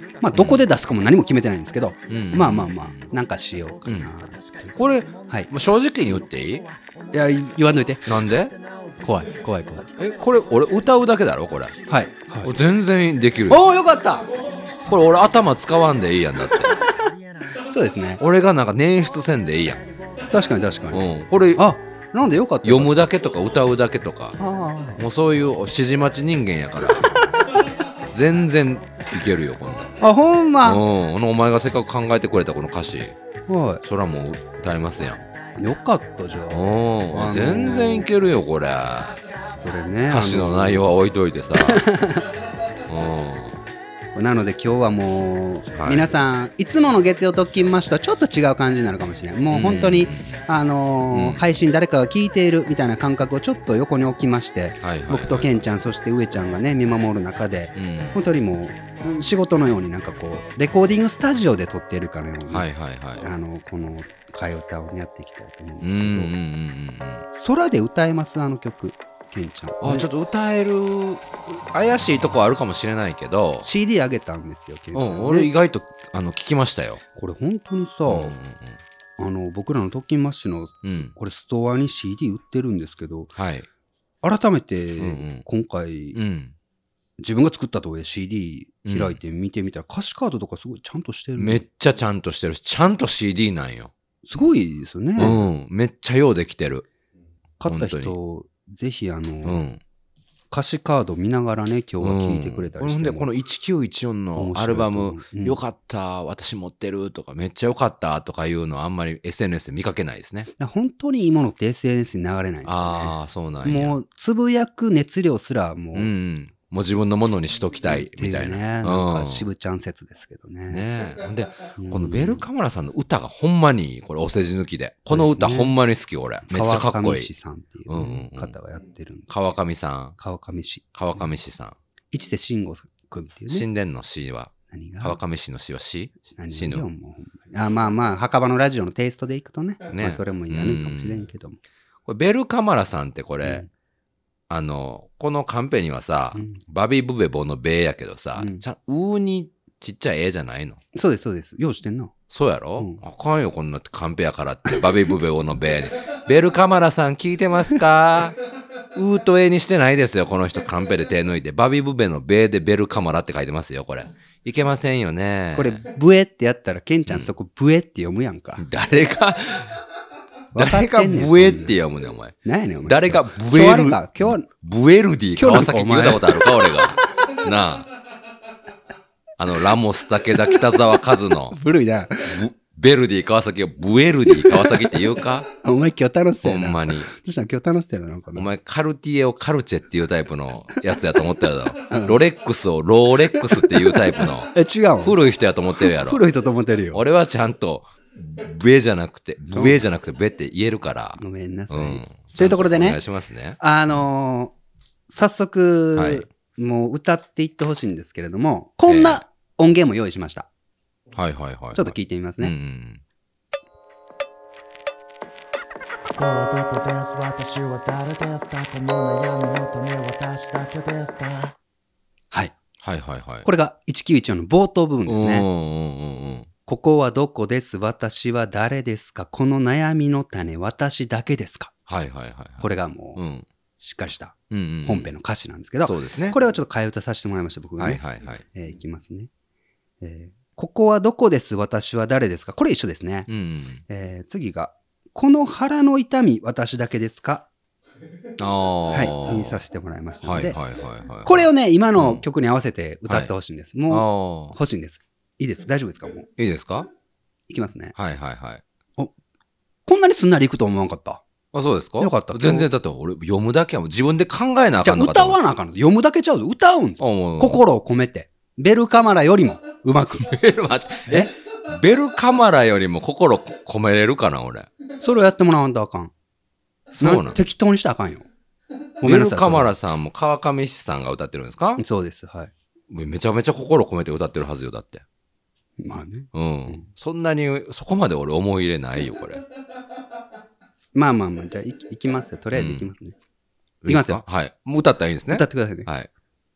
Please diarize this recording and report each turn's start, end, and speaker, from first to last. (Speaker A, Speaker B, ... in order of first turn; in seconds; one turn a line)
Speaker A: 0.2-4.7
Speaker B: 0.3-0.7
Speaker B: 2.1-3.0
Speaker B: 3.8-4.1
Speaker C: 4.1-5.3
Speaker B: 4.7-6.6
Speaker C: 6.3-7.5
Speaker A: 7.1-8.2
Speaker B: 8.1-8.5
Speaker C: 8.3-9.2
Speaker A: 9.0-9.9
Speaker B: 10.0-11.7
Speaker A: 11.9-12.5
Speaker B: 12.4-13.6
Speaker A: 13.5-14.3
Speaker C: 14.3-15.0
Speaker B: 14.9-16.8
Speaker C: 16.7-17.6
Speaker A: 17.6-18.2
Speaker B: 18.2-19.8
Speaker A: 20.3-21.0
Speaker B: 20.9-21.7
Speaker A: 21.5-23.0
Speaker B: 22.6-24.4
Speaker A: 24.4-25.0
Speaker B: 25.0-27.3
Speaker B: 28.1-29.9
Speaker A: 30.0-30.8
Speaker B: 30.6-33.1
Speaker A: 33.5-33.8
Speaker B: 33.8-35.2
Speaker A: 35.6-38.1
Speaker B: 36.5-39.2
Speaker A: 39.6-40.9
Speaker B: 40.1-41.9
Speaker A: 41.5-42.3
Speaker B: 42.9-43.6
Speaker A: 44.1-62.6
Speaker B: 45.7-46.1
Speaker B: 49.5-50.4
Speaker B: 51.1-51.4
Speaker B: 54.8-55.6
Speaker B: 57.8-58.2
Speaker B: 62.5-63.2
Speaker A: 63.2-66.3
Speaker B: 65.8-67.2
Speaker A: 67.3-70.1
Speaker B: 69.8-73.7
Speaker A: 73.6-75.5
Speaker B: 74.9-77.0
Speaker A: 77.1-78.3
Speaker B: 78.1-78.8
Speaker A: 79.2-83.3
Speaker B: 80.8-81.1
Speaker B: 83.3-83.7
Speaker A: 84.2-86.2
Speaker B: 85.0-85.4
Speaker B: 86.1-86.5
Speaker A: 87.2-91.6
Speaker B: 88.8-89.2
Speaker B: 91.4-93.9
Speaker A: 94.2-95.4
Speaker B: 95.2-96.8
Speaker A: 97.6-99.6
Speaker B: 97.7-98.2
Speaker B: 99.4-99.8
Speaker A: 100.5-103.3
Speaker B: 102.0-110.5
Speaker A: 104.3-105.6
Speaker A: 110.6-116.1
Speaker B: 112.6-113.9
Speaker B: 115.9-119.5
Speaker A: 117.8-120.8
Speaker B: 120.7-127.3
Speaker A: 121.8-122.4
Speaker A: 125.1-125.7
Speaker A: 126.5-129.3
Speaker B: 127.9-128.5
Speaker B: 129.3-130.2
Speaker A: 130.2-130.8
Speaker B: 130.9-131.7
Speaker A: 132.1-133.7
Speaker B: 133.5-136.8
Speaker A: 134.7-135.2
Speaker A: 136.3-141.6
Speaker B: 139.9-141.3
Speaker B: 142.1-143.6
Speaker A: 143.4-143.7
Speaker B: 144.5-150.8
Speaker A: 146.3-146.6
Speaker A: 148.4-148.6
Speaker A: 150.9-152.1
Speaker B: 152.3-158.3
Speaker B: 158.9-165.8
Speaker A: 165.5-168.6
Speaker B: 168.6-169.8
Speaker B: 170.5-172.3
Speaker A: 170.5-171.7
Speaker A: 172.4-174.5
Speaker B: 172.8-177.9
Speaker A: 175.3-176.9
Speaker B: 179.4-181.6
Speaker A: 181.5-182.5
Speaker B: 182.3-185.5
Speaker A: 184.4-184.9
Speaker A: 185.6-188.5
Speaker B: 186.4-187.1
Speaker B: 188.3-196.2
Speaker A: 191.9-192.2
Speaker A: 193.3-195.2
Speaker A: 195.8-197.0
Speaker B: 196.9-203.6
Speaker A: 199.5-199.8
Speaker A: 201.2-203.0
Speaker A: 203.6-204.5
Speaker A: 205.1-210.5
Speaker B: 205.9-206.2
Speaker B: 208.9-209.2
Speaker B: 211.1-213.0
Speaker A: 211.7-212.5
Speaker C: 216.1-221.6
Speaker B: 222.8-223.4
Speaker A: 223.4-225.5
Speaker B: 225.1-226.5
Speaker A: 226.7-231.7
Speaker B: 231.9-233.5
Speaker A: 232.6-233.2
Speaker A: 233.8-238.0
Speaker B: 234.5-235.1
Speaker B: 235.8-236.4
Speaker B: 237.8-238.4
Speaker A: 238.5-239.3
Speaker A: 240.0-243.3
Speaker B: 243.3-243.8
Speaker A: 243.9-247.5
Speaker B: 248.4-249.6
Speaker A: 248.9-250.6
Speaker B: 250.2-252.2
Speaker A: 251.2-256.3
Speaker B: 253.9-254.6
Speaker B: 256.4-256.9
Speaker A: 257.5-257.9
Speaker B: 257.9-258.6
Speaker A: 259.9-261.2
Speaker B: 261.5-265.4
Speaker A: 262.0-262.7
Speaker A: 264.8-270.3
Speaker B: 267.0-267.6
Speaker B: 270.2-274.7
Speaker A: 271.1-271.3
Speaker A: 275.0-276.1
Speaker B: 276.9-277.4
Speaker A: 277.0-278.2
Speaker A: 279.0-279.7
Speaker B: 279.0-281.8
Speaker A: 281.8-282.5
Speaker B: 282.9-285.0
Speaker A: 285.8-286.9
Speaker B: 286.3-289.4
Speaker A: 290.9-293.1
Speaker B: 292.5-292.9
Speaker B: 293.8-296.1
Speaker A: 293.9-294.2
Speaker A: 295.3-295.9